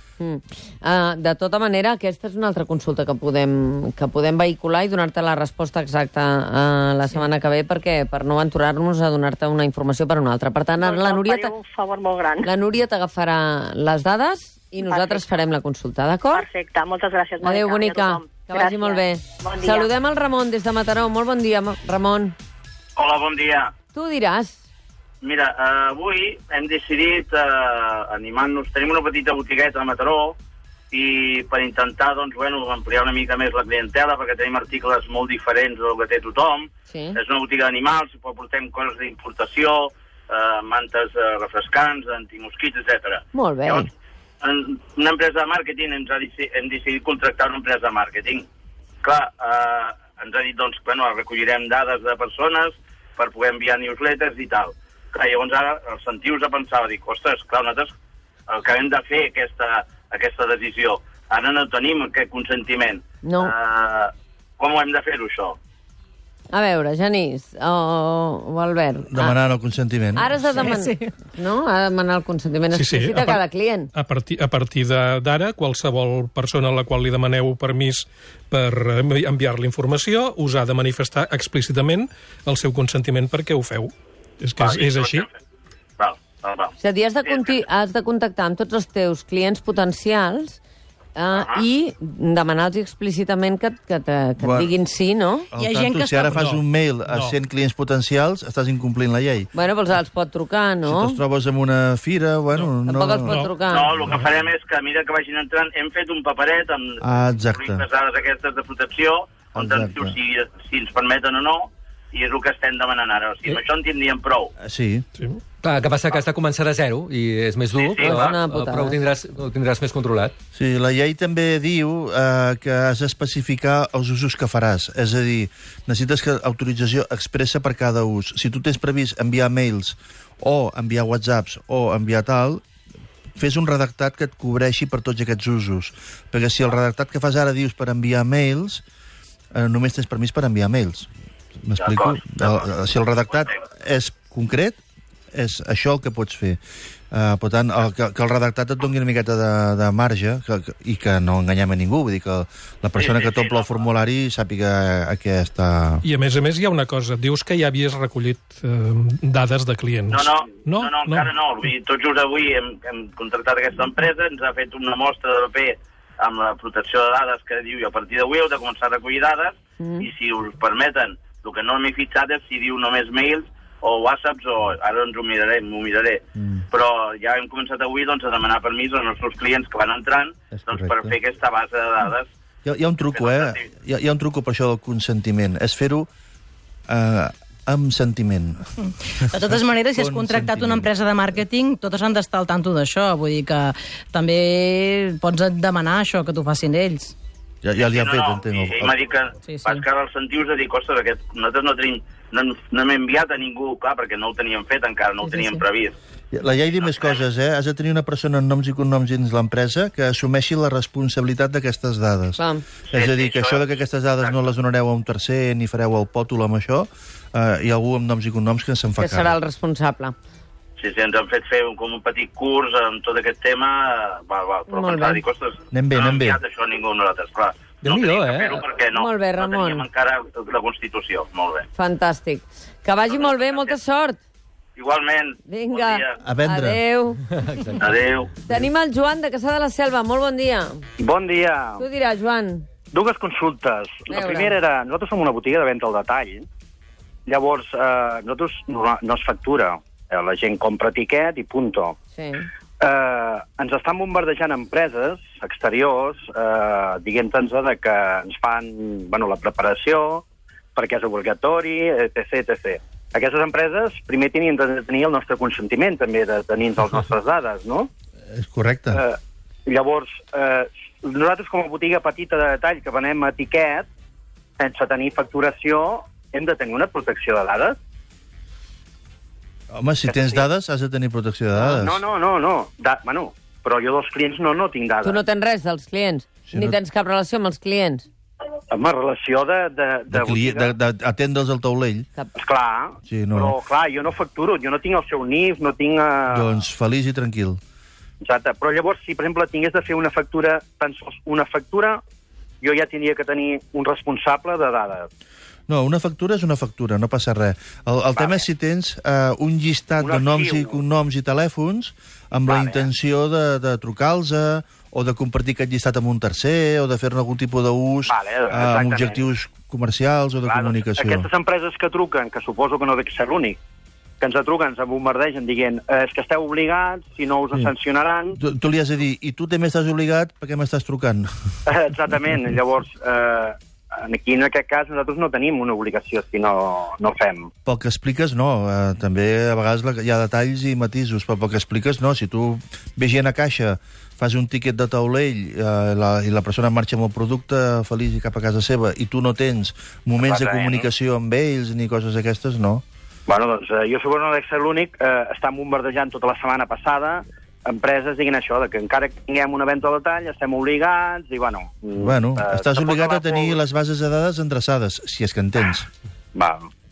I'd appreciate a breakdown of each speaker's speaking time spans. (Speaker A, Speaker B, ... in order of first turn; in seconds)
Speaker A: 0.2-11.5, 12.4-16.4, 17.4-22.3, 23.9-24.6, 36.9-37.2, 43.3-43.9, 63.2-63.5, 66.5-69.3, 70.2-73.9, 86.8-90.6, 91.2-95.5, 99.5-101.2, 102.9-103.9, 118.0-119.0, 169.8-170.1, 212.4-212.6, 219.0-220.1, 224.7-225.2, 228.9-229.8, 231.7-234.2, 235.4-237.2, 238.4-240.8, 241.8-242.7, 244.1-244.5, 252.2-252.5, 285.0-288.1
Speaker B: 10.8-12.5, 14.8-15.2, 16.3-19.9
Speaker C: 23.0-23.7, 25.2-30.4, 30.9-43.9, 44.4-48.5, 49.0-57.9, 58.5-65.6, 84.6-85.3, 86.0-86.7, 87.2-87.6, 91.3-91.6, 103.7-114.5, 117.7-118.4, 141.8-142.7, 152.9-153.8, 160.1-182.3, 183.1-183.7, 197.8-205.9, 206.8-207.2, 212.9-213.7, 220.8-231.7, 233.1-233.8, 234.8-236.2, 237.8-238.3
Speaker D: 69.1-70.3, 94.4-94.7, 95.5-99.5, 100.8-103.4, 107.0-107.8, 109.5-110.1, 114.6-115.0, 120.5-132.6, 133.3-138.8, 139.5-141.1, 141.6-144.8, 145.3-146.6, 147.1-156.0, 176.4-176.6, 180.5-181.2, 182.6-186.1, 186.9-188.7, 189.3-190.9, 197.6-198.9, 206.3-212.4, 212.9-219.3, 225.7-226.4, 236.2-236.8, 268.3-269.0, 279.7-282.0, 286.5-286.8, 290.1-292.1, 293.1-293.6, 296.3-297.6, 305.7-321.3, 328.4-331.5, 337.6-352.8, 362.0-365.9
Speaker E: 70.6-71.1, 95.6-96.4, 188.8-197.1, 199.4-199.8, 205.2-205.6
Speaker F: 72.7-73.4, 73.9-85.3, 96.3-97.3, 103.2-104.3, 156.0-161.3
Speaker G: 115.6-120.3, 227.8-228.6, 237.4-237.8
Speaker H: 241.0-241.8, 242.9-246.4, 247.3-252.0, 252.8-267.9, 268.9-273.9, 274.6-277.8, 280.1-280.4, 281.6-285.2, 288.7-290.7, 292.4-296.5, 298.2-302.0, 302.6-305.1, 308.2-308.4, 310.0-310.8, 312.5-312.9, 318.1-319.2, 320.4-323.6, 324.2-328.4, 331.6-337.5, 350.2-350.8, 353.3-363.6, 366.3-366.7